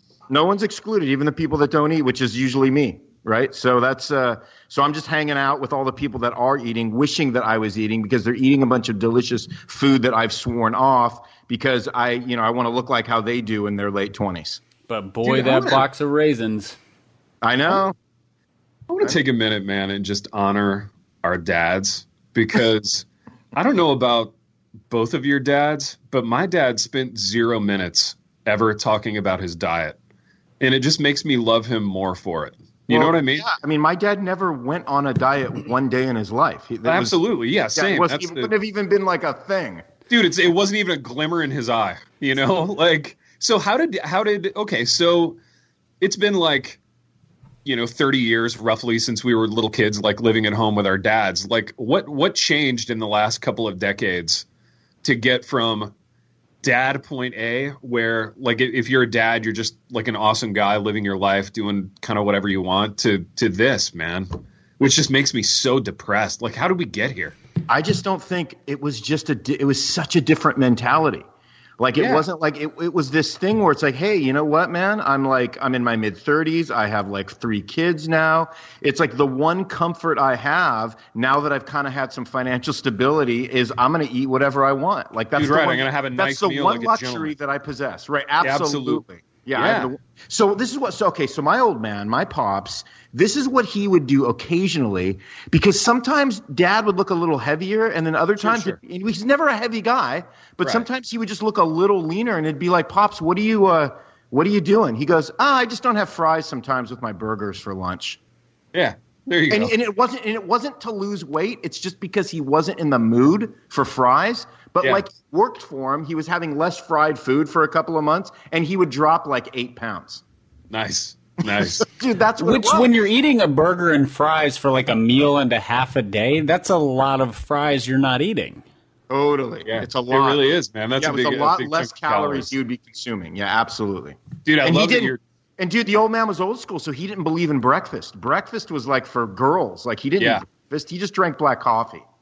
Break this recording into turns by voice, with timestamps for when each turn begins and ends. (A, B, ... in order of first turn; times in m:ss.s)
0:00.3-0:14.6 A
0:14.9-0:16.8 B
0:15.3-0:15.8 C
0:17.4-0:18.0 A
0:18.9-0:24.3 C
0:24.9-0:30.0 C
0:30.6-0:33.5 C
0:32.9-0:37.2 A
0:36.8-0:38.5 C
0:37.7-0:39.8 A
0:40.1-0:45.4 C
0:46.0-0:46.8 C
0:47.6-0:54.4 C
0:55.0-0:55.9 C
0:56.6-1:07.4 C
1:07.7-1:11.3 A
1:11.8-1:48.2 A
1:12.0-1:12.2 C
1:25.4-1:27.3 C
1:28.4-1:29.0 C
1:29.6-1:29.9 C
1:38.4-1:38.8 C
1:48.7-1:49.7 C
1:49.5-2:00.2 A
2:00.7-2:01.9 C
2:01.6-2:03.0 A
2:02.4-2:08.6 B
2:09.1-2:10.4 A
2:09.7-2:12.5 C
2:11.0-2:22.1 A
2:14.4-2:15.2 C
2:20.2-2:20.4 C